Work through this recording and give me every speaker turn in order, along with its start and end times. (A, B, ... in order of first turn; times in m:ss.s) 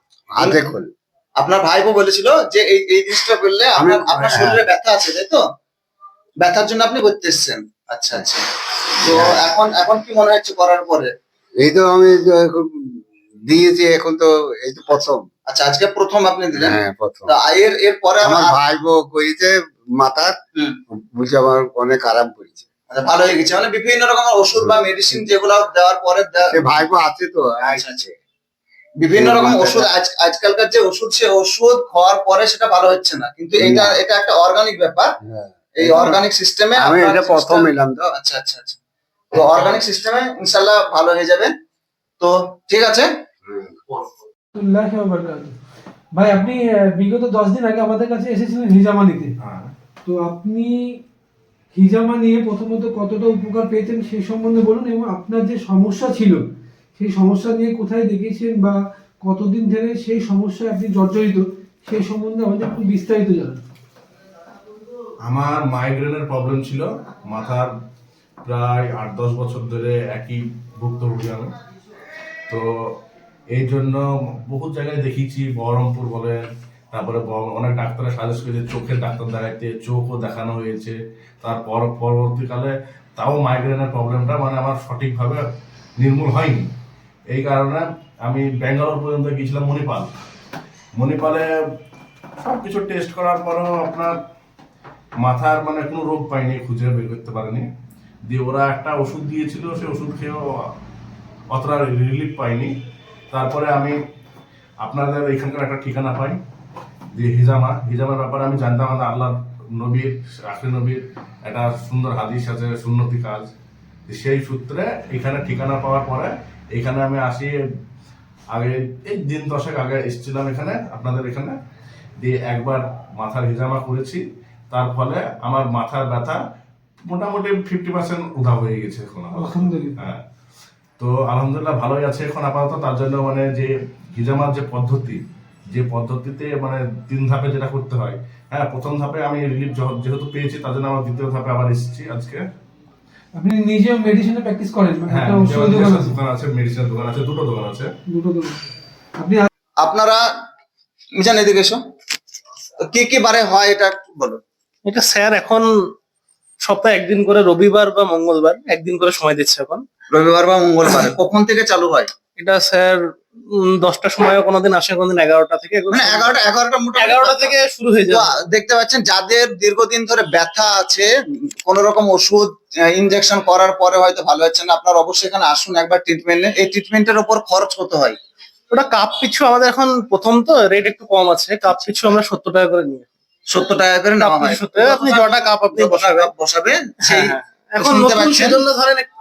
0:00.3-0:00.9 A
0:01.4-0:05.4 B
0:03.8-0:04.7 A
0:06.4-0:08.4 B
0:09.0-0:11.1 B
0:09.1-0:09.4 A
0:11.6-0:15.3 A
0:15.5-0:18.6 B
0:16.5-0:17.4 A
0:18.2-0:20.4 A
0:20.9-0:22.7 A
0:22.9-0:26.5 B
0:24.6-0:25.2 A
0:26.5-0:28.2 A
0:27.8-0:28.0 B
0:29.0-0:35.1 B
0:29.2-0:29.9 A
0:33.6-0:34.0 A
0:35.2-0:36.2 A
0:35.8-0:38.8 B
0:36.8-0:38.0 A
0:39.3-0:41.5 B
0:42.2-0:43.1 B
0:43.4-0:43.8 A
0:44.6-0:45.6 C
0:46.1-0:49.3 C
0:49.4-0:49.7 D
0:50.0-0:51.0 C
0:51.7-1:03.6 C
1:05.2-1:07.7 D
1:08.4-1:11.5 D
1:12.5-1:13.0 D
1:13.5-1:25.4 D
1:26.0-1:26.7 D
1:27.3-1:30.1 D
1:31.0-1:31.5 D
1:32.4-1:34.2 D
1:35.2-1:37.6 D
1:38.3-1:40.4 D
1:41.5-1:42.7 D
1:43.3-1:44.0 D
1:44.8-1:46.4 D
1:47.1-1:53.5 D
1:54.1-1:57.5 D
1:58.5-2:01.5 D
2:02.2-2:06.4 D
2:07.1-2:10.2 D
2:09.3-2:10.0 C
2:11.0-2:15.2 D
2:15.7-2:22.4 D
2:23.4-2:26.2 C
2:25.1-2:27.9 D
2:28.1-2:29.5 C
2:29.8-2:30.2 B
2:31.2-2:31.8 B
2:32.9-2:34.4 B
2:34.9-2:35.6 E
2:36.6-2:39.8 E
2:40.1-2:42.1 B
2:42.4-2:43.0 E
2:43.7-2:46.4 E
2:45.9-2:51.1 B
2:47.0-2:48.3 E
2:51.6-2:58.2 B
2:58.7-3:03.1 E
3:03.5-3:08.6 B
3:04.2-3:06.3 E
3:07.0-3:09.1 E